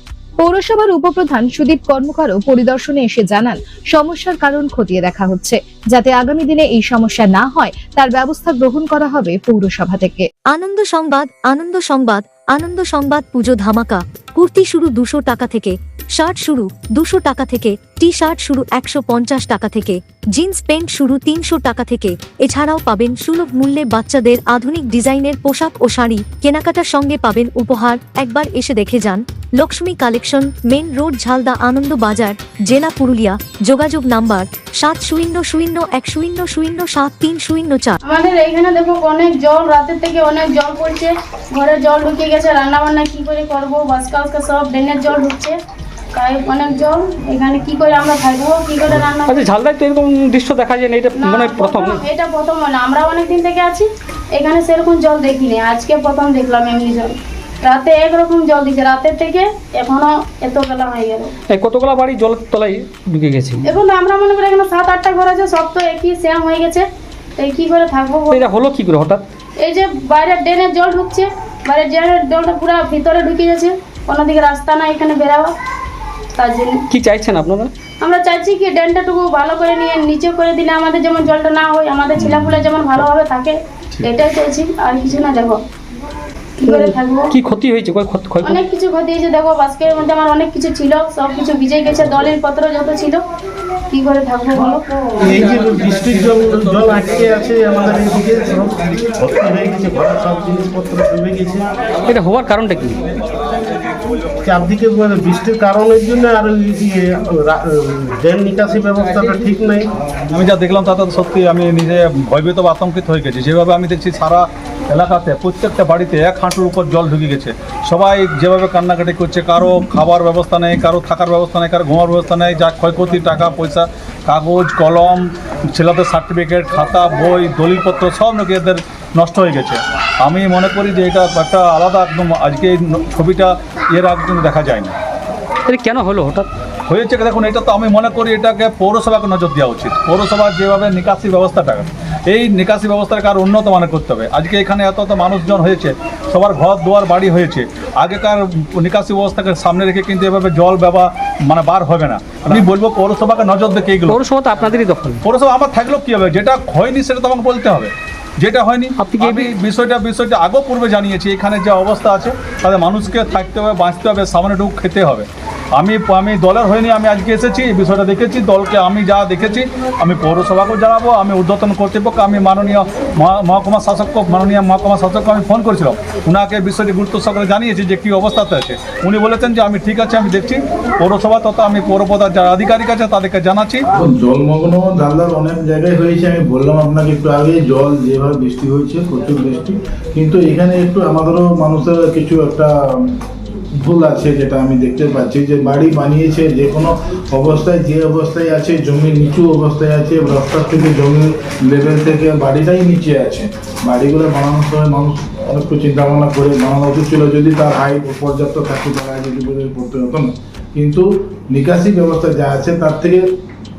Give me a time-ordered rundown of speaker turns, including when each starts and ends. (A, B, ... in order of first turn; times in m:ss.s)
0:00.4-0:10.3 A
0:10.5-0:38.0 B
0:38.0-0:45.6 C
0:46.1-0:49.5 C
0:48.9-0:52.0 D
0:51.2-1:01.3 C
1:01.5-1:03.7 D
1:03.6-1:06.8 C
1:07.4-1:08.4 C
1:08.3-1:09.2 D
1:09.6-1:15.5 C
1:16.4-1:16.7 C
1:16.9-1:17.7 D
1:18.0-1:25.6 C
1:26.6-1:27.3 C
1:26.6-1:28.6 D
1:28.4-1:33.2 C
1:33.9-1:34.9 C
1:35.2-1:41.8 E
1:42.1-1:43.0 D
1:44.4-1:49.9 E
1:50.3-2:15.0 F
2:15.7-2:16.5 D
2:16.9-2:34.2 F
2:34.1-2:35.2 D
2:35.2-3:03.9 F
2:39.0-2:39.5 D
3:04.0-3:13.2 G
3:13.8-3:33.3 G